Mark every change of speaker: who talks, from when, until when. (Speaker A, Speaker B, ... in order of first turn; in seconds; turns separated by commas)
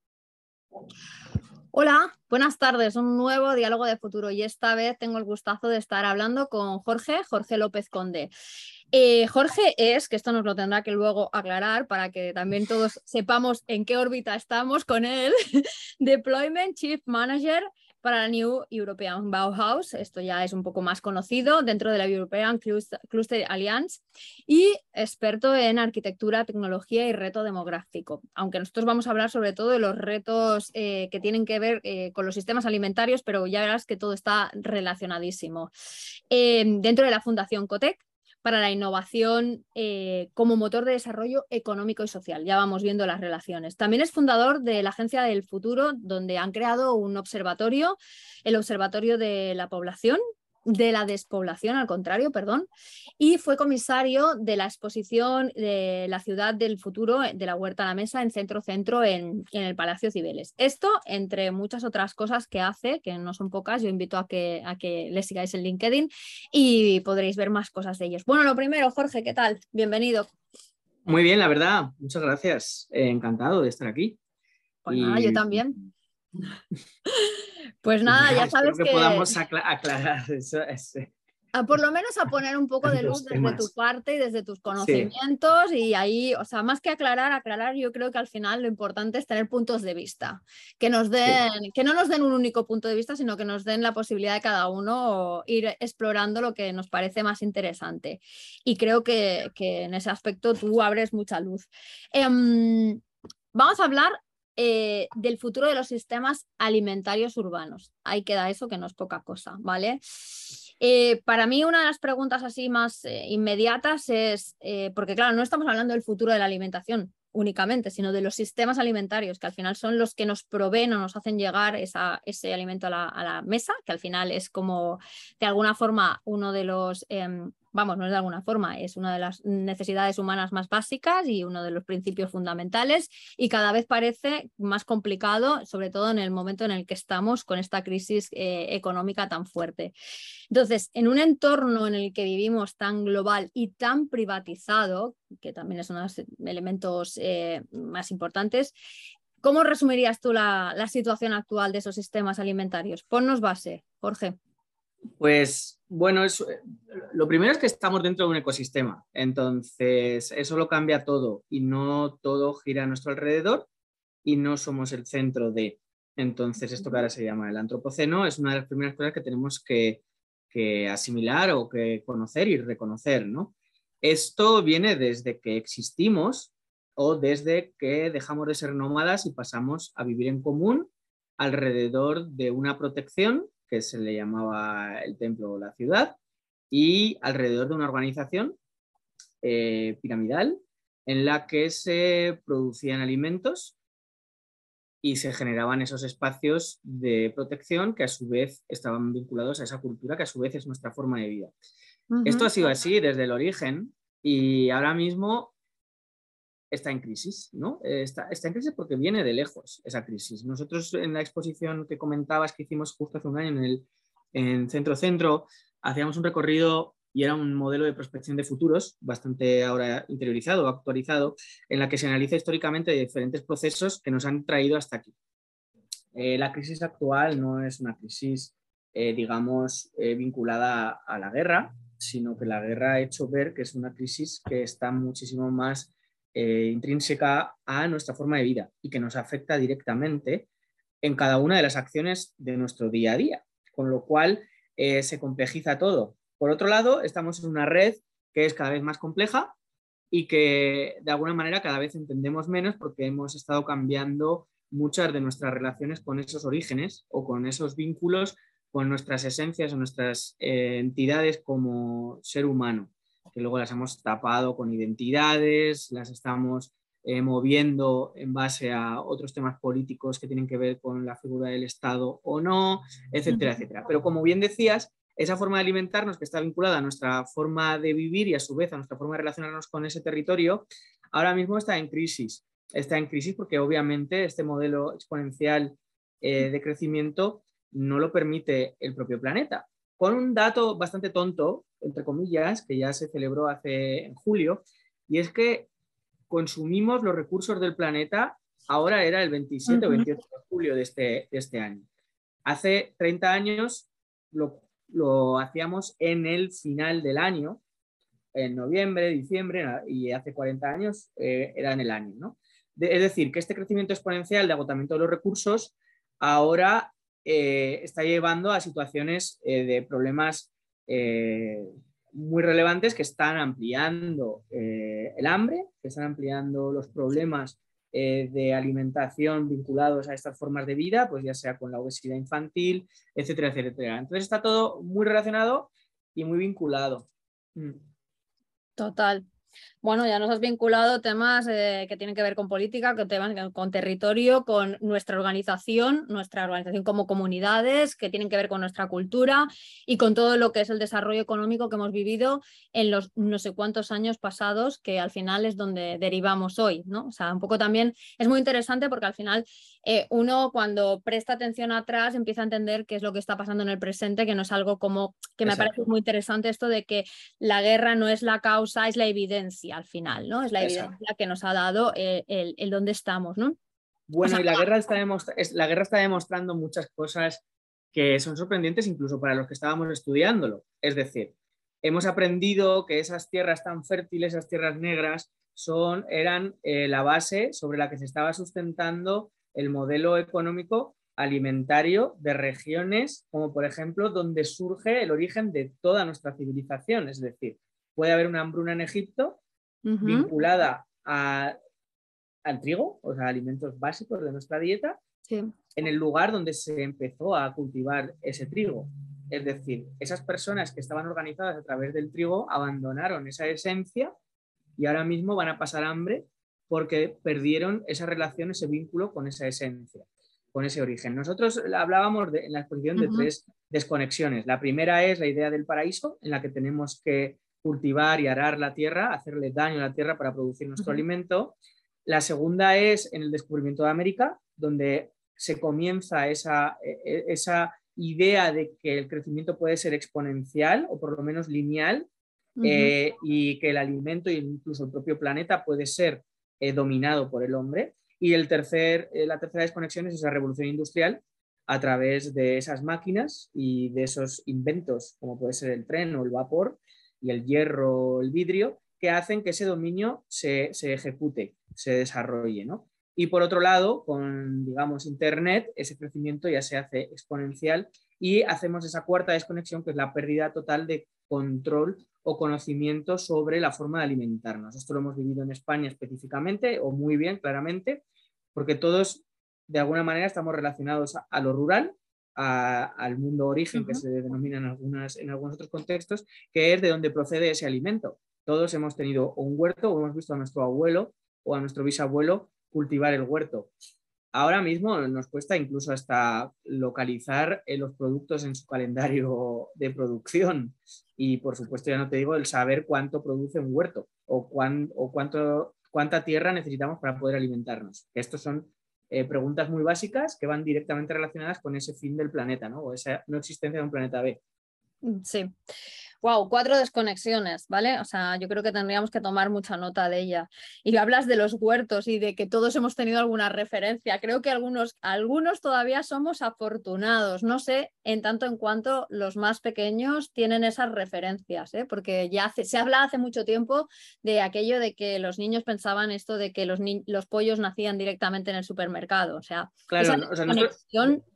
Speaker A: 1.7-8.3, Speaker A: 8.9-35.7, Speaker A: 36.3-52.7, Speaker A: 53.2-70.3, Speaker B: 71.0-74.2, Speaker A: 74.8-75.8, Speaker B: 74.9-75.9, Speaker A: 77.2-79.3, Speaker B: 78.1-81.1, Speaker A: 81.5-103.0, Speaker B: 82.8-83.7, Speaker B: 84.8-85.1, Speaker A: 103.5-139.9, Speaker A: 140.5-148.7, Speaker A: 149.4-154.4, Speaker B: 155.2-163.7, Speaker B: 164.2-186.2, Speaker B: 186.7-188.6, Speaker B: 189.4-193.8, Speaker B: 195.0-201.5, Speaker A: 202.1-202.5, Speaker B: 202.2-205.5, Speaker B: 206.7-225.1, Speaker B: 226.2-240.5, Speaker B: 241.0-249.6, Speaker B: 250.1-295.7, Speaker B: 296.3-301.9, Speaker A: 299.7-300.1, Speaker B: 302.5-307.6, Speaker B: 308.3-337.8, Speaker A: 338.8-339.2, Speaker A: 339.8-373.6, Speaker B: 365.5-365.8, Speaker B: 370.6-370.9, Speaker B: 374.1-399.4, Speaker A: 374.2-374.6, Speaker A: 399.9-400.3, Speaker B: 400.0-401.6, Speaker B: 402.4-405.0, Speaker B: 405.8-414.1, Speaker B: 414.8-442.1, Speaker A: 423.0-423.3, Speaker A: 442.6-442.9, Speaker B: 442.6-478.0, Speaker B: 478.6-493.7, Speaker A: 483.7-484.0, Speaker B: 494.3-514.4, Speaker A: 515.0-515.5, Speaker A: 516.2-541.2, Speaker B: 539.9-541.1